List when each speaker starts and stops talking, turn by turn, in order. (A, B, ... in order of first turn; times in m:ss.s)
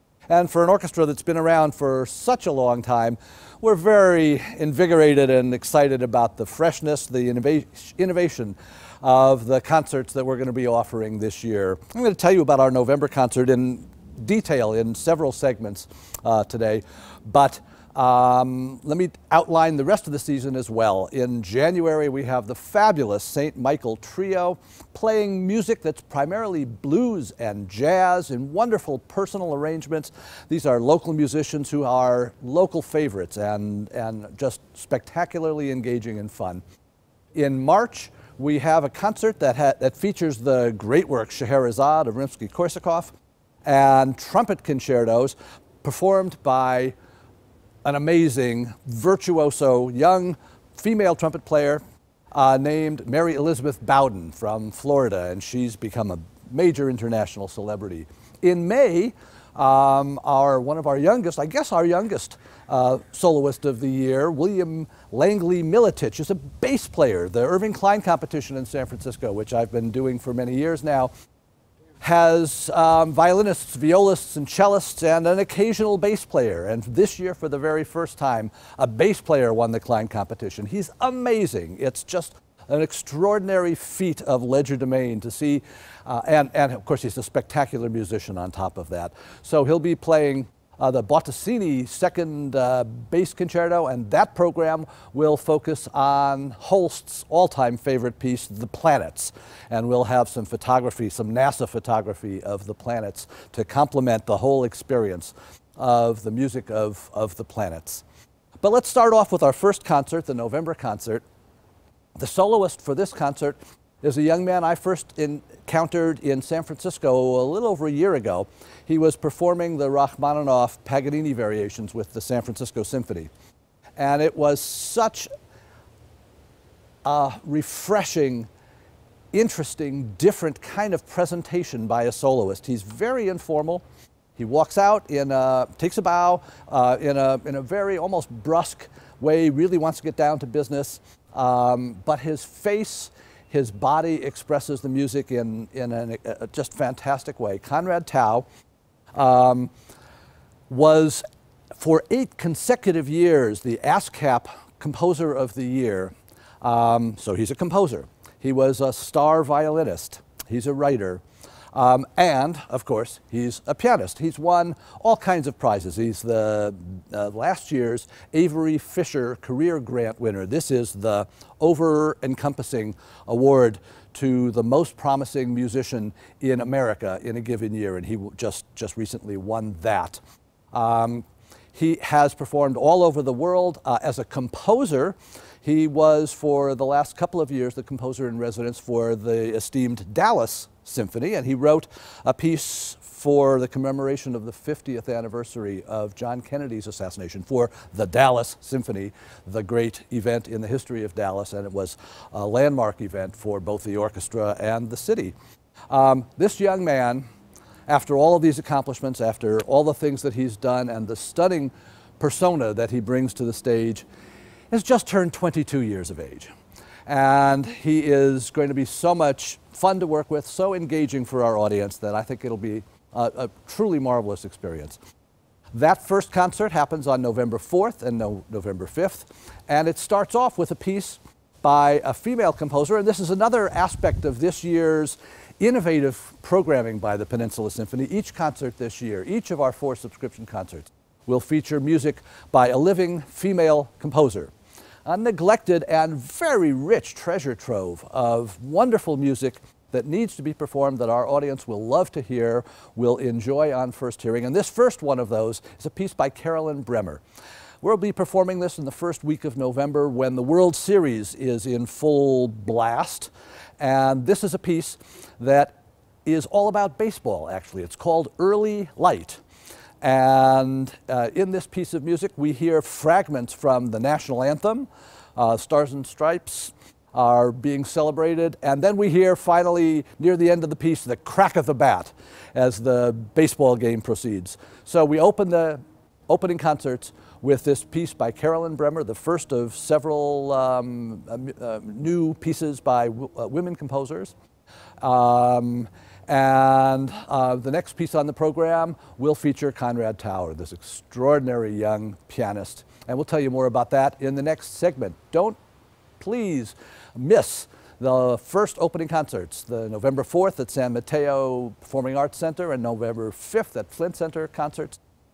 0:00.3-0:36.6 A
0:37.3-0:43.1 A
0:43.6-0:46.9 A
0:47.8-0:51.8 A
0:52.3-1:11.1 A
1:12.0-1:48.0 A
1:48.6-1:51.2 A
1:52.2-2:03.3 A
2:04.0-2:05.3 A
2:07.0-2:08.5 A
2:09.3-2:13.8 A
2:14.4-2:28.4 A
2:29.2-2:29.7 A
2:30.7-2:31.2 A
2:31.7-3:00.2 A
3:00.7-3:25.3 A
3:25.9-3:27.2 A
3:27.9-3:34.0 A
3:34.7-3:36.5 A
3:37.0-3:45.0 A
3:45.7-4:04.5 A
4:05.0-4:17.2 A
4:17.8-4:29.4 A
4:30.0-4:54.3 A
4:55.0-5:05.6 A
5:06.2-5:15.0 A